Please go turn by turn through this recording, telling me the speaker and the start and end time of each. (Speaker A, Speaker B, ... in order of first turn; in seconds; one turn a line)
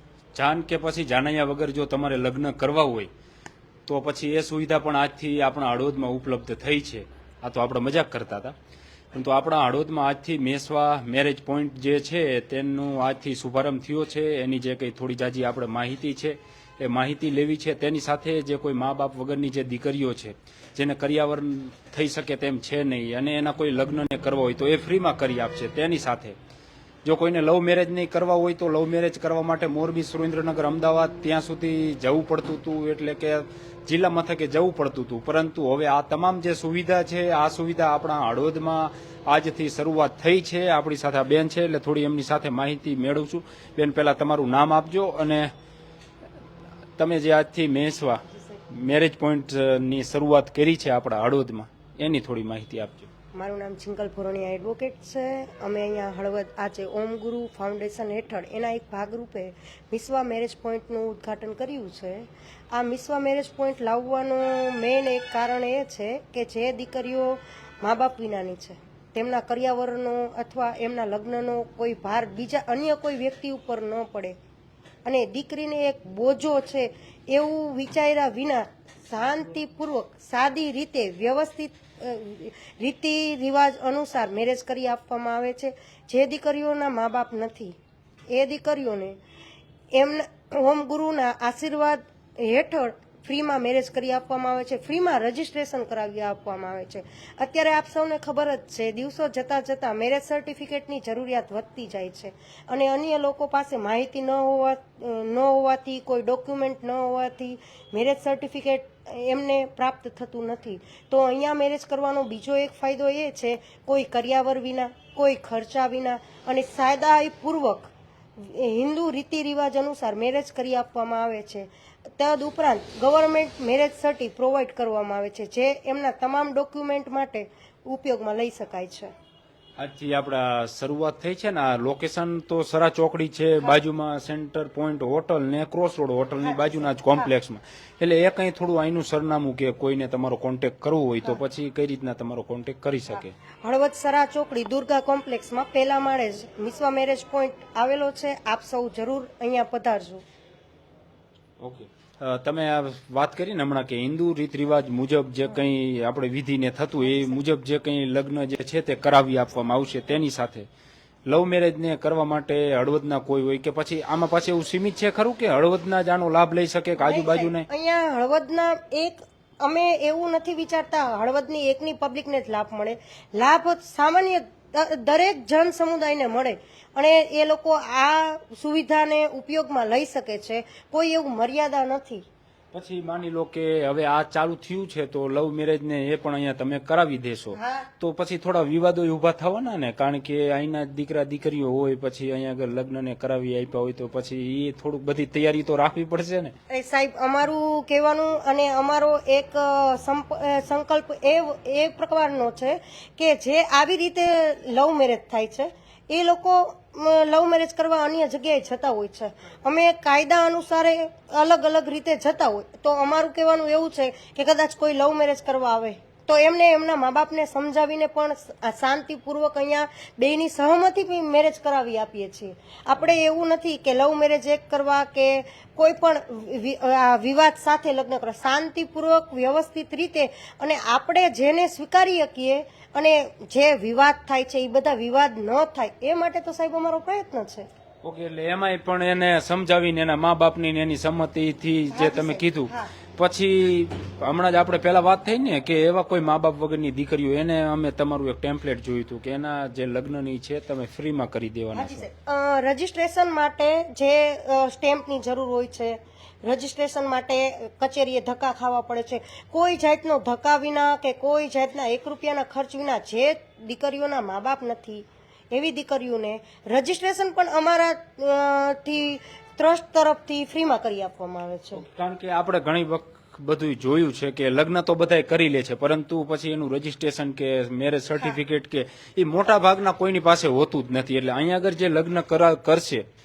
Speaker A: 0.3-3.1
Speaker A: 3.9-8.5
Speaker A: 9.1-26.4
Speaker A: 27.0-45.5
Speaker A: 47.0-53.1
Speaker B: 53.3-74.3
Speaker B: 75.0-87.8
Speaker B: 88.3-89.2
Speaker B: 89.9-129.1
Speaker A: 129.8-143.3
Speaker B: 136.4-137.3
Speaker B: 143.1-150.2
Speaker A: 151.6-160.7
Speaker B: 157.0-157.4
Speaker A: 161.3-167.7
Speaker B: 167.0-182.2
Speaker A: 182.7-196.5
Speaker B: 187.5-187.9
Speaker B: 196.7-237.7
Speaker A: 238.0-252.1
Speaker B: 241.9-242.9
Speaker B: 251.7-271.8
Speaker A: 271.7-283.1